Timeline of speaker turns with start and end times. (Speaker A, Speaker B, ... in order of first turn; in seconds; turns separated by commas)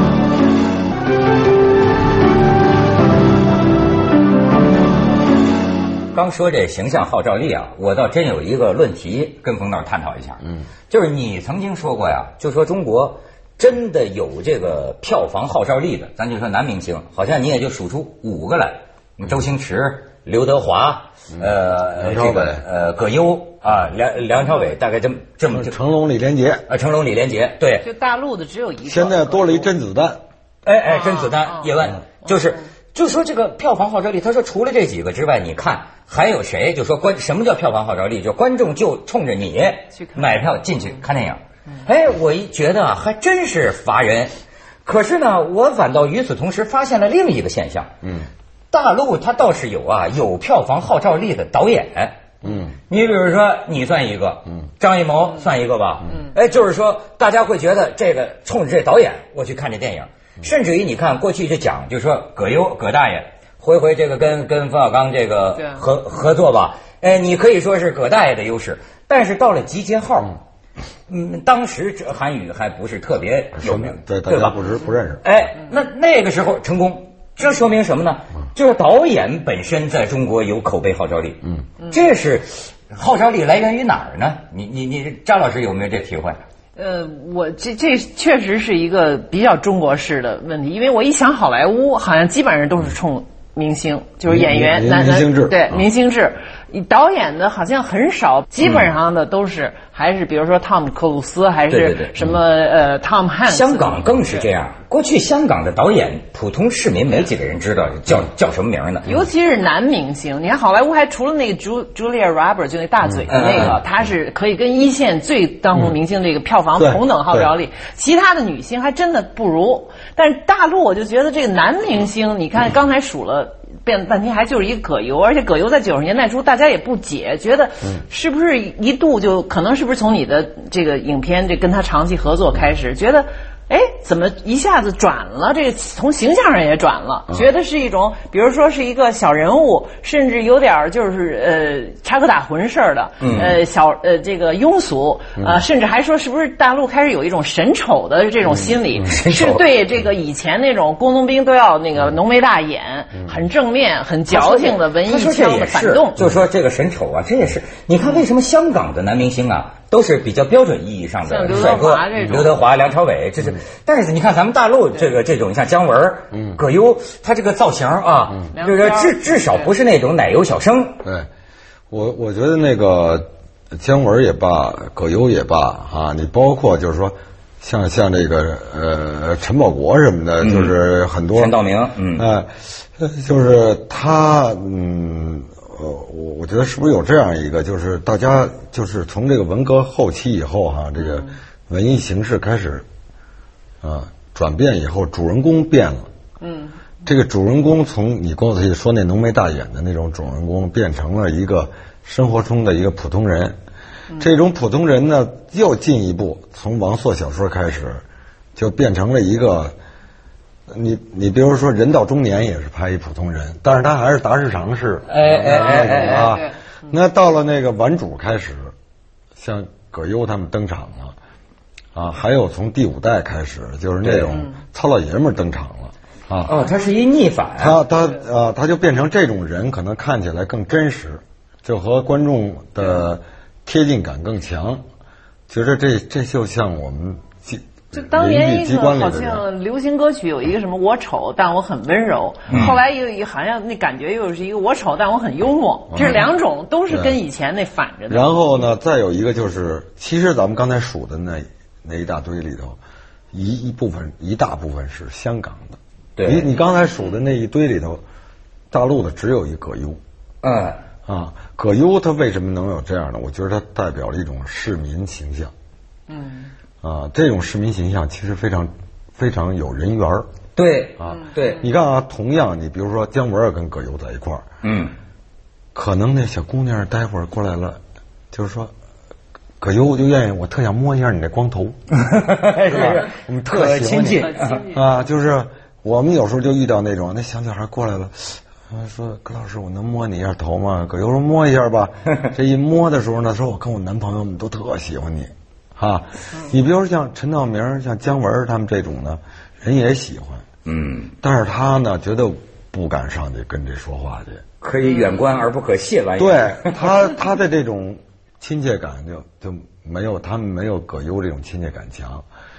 Speaker A: 6.1-25.8, Speaker B: 21.3-22.6, Speaker B: 25.5-26.7, Speaker A: 26.7-27.9, Speaker C: 27.8-29.7, Speaker B: 28.9-30.2, Speaker A: 30.6-44.3, Speaker C: 30.9-31.7, Speaker C: 40.0-40.2, Speaker A: 44.9-47.9, Speaker B: 48.0-48.3, Speaker A: 48.7-70.4, Speaker B: 52.4-52.8, Speaker A: 71.1-74.6, Speaker B: 73.6-75.3, Speaker A: 75.2-86.4, Speaker C: 86.8-104.4, Speaker B: 94.3-95.8, Speaker A: 98.6-98.9, Speaker A: 101.7-102.2, Speaker A: 103.5-109.1, Speaker C: 109.0-156.2, Speaker B: 113.0-113.7, Speaker A: 113.3-113.8, Speaker B: 116.8-117.5, Speaker A: 143.2-143.6, Speaker A: 148.9-149.7, Speaker A: 154.3-171.0, Speaker C: 161.3-162.5, Speaker B: 166.3-166.6, Speaker C: 168.5-169.7, Speaker B: 171.0-171.3, Speaker B: 171.9-181.6, Speaker A: 180.4-180.8, Speaker A: 181.3-182.3, Speaker B: 182.1-192.9, Speaker C: 191.0-191.3, Speaker B: 193.8-196.1, Speaker C: 196.4-196.8, Speaker B: 197.1-203.6, Speaker B: 204.2-208.0, Speaker B: 208.6-209.8, Speaker B: 210.7-218.7, Speaker A: 215.1-216.4, Speaker C: 216.1-216.5, Speaker B: 219.4-221.2, Speaker B: 221.9-226.6, Speaker A: 224.1-224.3, Speaker A: 226.4-227.8, Speaker B: 227.6-234.8, Speaker B: 235.5-239.4, Speaker C: 237.9-248.3, Speaker A: 242.5-242.8, Speaker B: 245.9-246.2, Speaker B: 246.9-247.2, Speaker B: 248.1-252.8, Speaker B: 253.3-258.0, Speaker A: 256.2-256.5, Speaker B: 258.7-260.0, Speaker A: 260.4-260.8, Speaker B: 261.1-265.5, Speaker C: 266.1-266.5, Speaker B: 266.8-270.3, Speaker A: 270.6-271.7, Speaker B: 271.0-274.5, Speaker A: 274.6-274.9, Speaker B: 275.7-277.8, Speaker B: 278.3-278.7, Speaker B: 279.6-281.8, Speaker A: 281.9-284.6, Speaker B: 282.7-300.5, Speaker C: 284.1-284.9, Speaker A: 300.7-301.1, Speaker B: 301.2-304.4, Speaker A: 304.6-306.9, Speaker B: 306.2-312.3